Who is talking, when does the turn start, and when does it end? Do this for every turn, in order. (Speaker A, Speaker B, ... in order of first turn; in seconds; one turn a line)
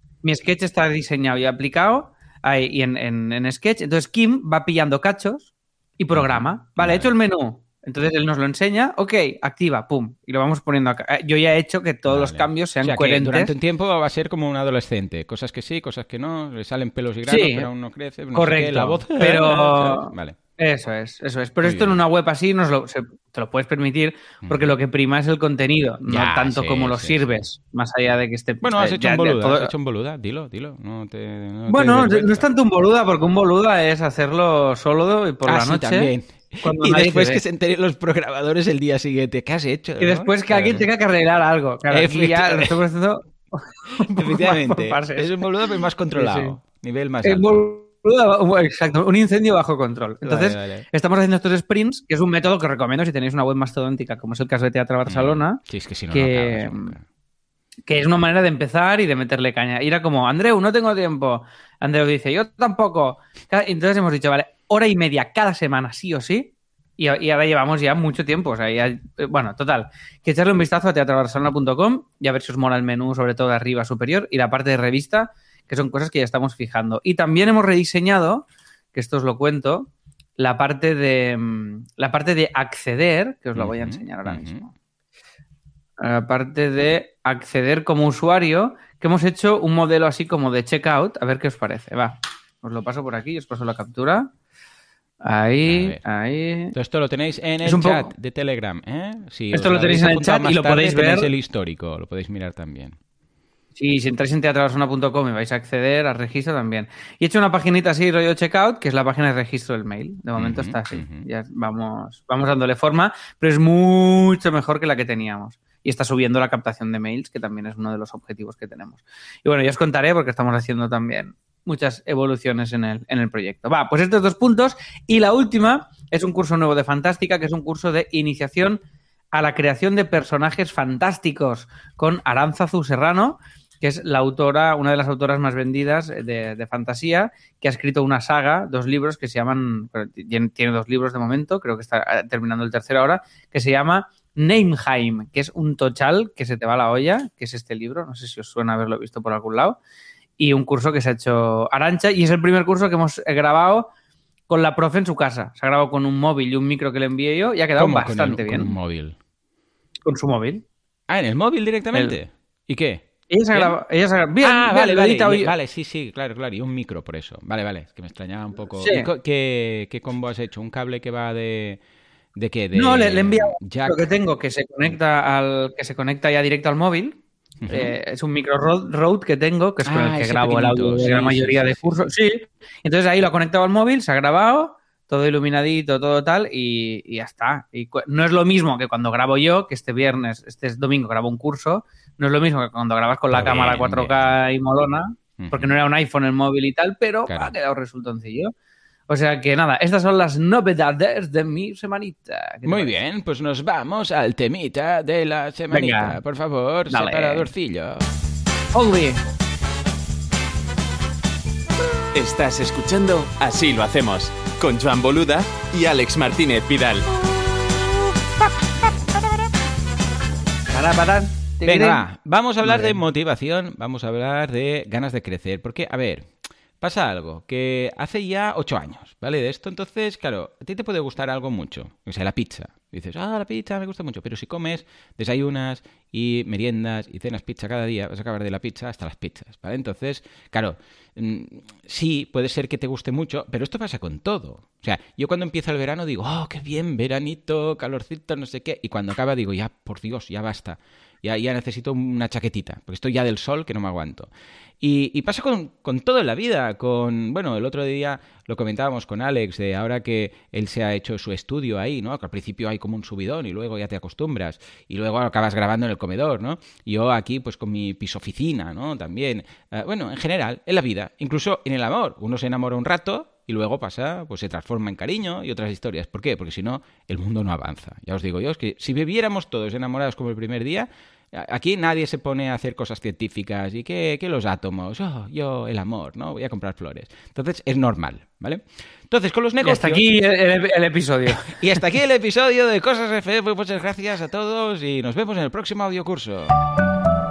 Speaker A: 0.2-13.5
Speaker B: 6.1-7.1
Speaker B: 12.1-20.4
Speaker A: 17.3-17.7
Speaker A: 18.3-29.7
Speaker B: 21.6-22.0
Speaker B: 24.4-24.7
Speaker B: 26.1-27.4
Speaker B: 28.6-32.5
Speaker A: 31.7-36.1
Speaker B: 35.5-40.9
Speaker A: 36.6-37.4
Speaker A: 40.0-46.5
Speaker B: 41.9-42.8
Speaker B: 44.1-47.7
Speaker A: 47.2-55.6
Speaker B: 50.2-50.9
Speaker B: 55.1-57.0
Speaker A: 56.1-56.9
Speaker A: 57.9-84.7
Speaker B: 83.5-84.7
Speaker A: 86.0-94.3
Speaker A: 95.2-96.7
Speaker B: 95.6-96.0
Speaker B: 96.7-103.0
Speaker A: 97.6-98.1
Speaker A: 99.5-101.3
Speaker A: 103.8-128.8
Speaker B: 110.3-111.2
Speaker A: 129.3-149.8
Speaker A: 150.4-153.9
Speaker A: 154.5-158.7
Speaker B: 157.8-159.2
Speaker A: 160.0-160.6
Speaker B: 161.1-163.8
Speaker A: 163.3-165.5
Speaker B: 164.4-171.8
Speaker A: 168.8-169.1
Speaker B: 172.3-174.1
Speaker A: 172.7-198.5
Speaker B: 177.6-177.9
Speaker B: 179.8-182.1
Speaker B: 193.3-194.3
Speaker B: 195.4-195.7
Speaker B: 197.3-197.5
Speaker A: 199.1-202.9
Speaker B: 202.6-208.1
Speaker A: 205.7-206.2
Speaker A: 206.9-207.5
Speaker A: 208.7-209.2
Speaker C: 212.1-217.1
Speaker A: 220.7-222.0
Speaker B: 221.7-226.3
Speaker A: 222.6-223.0
Speaker B: 226.8-254.3
Speaker B: 254.8-290.0
Speaker A: 289.6-291.6
Speaker B: 291.4-296.6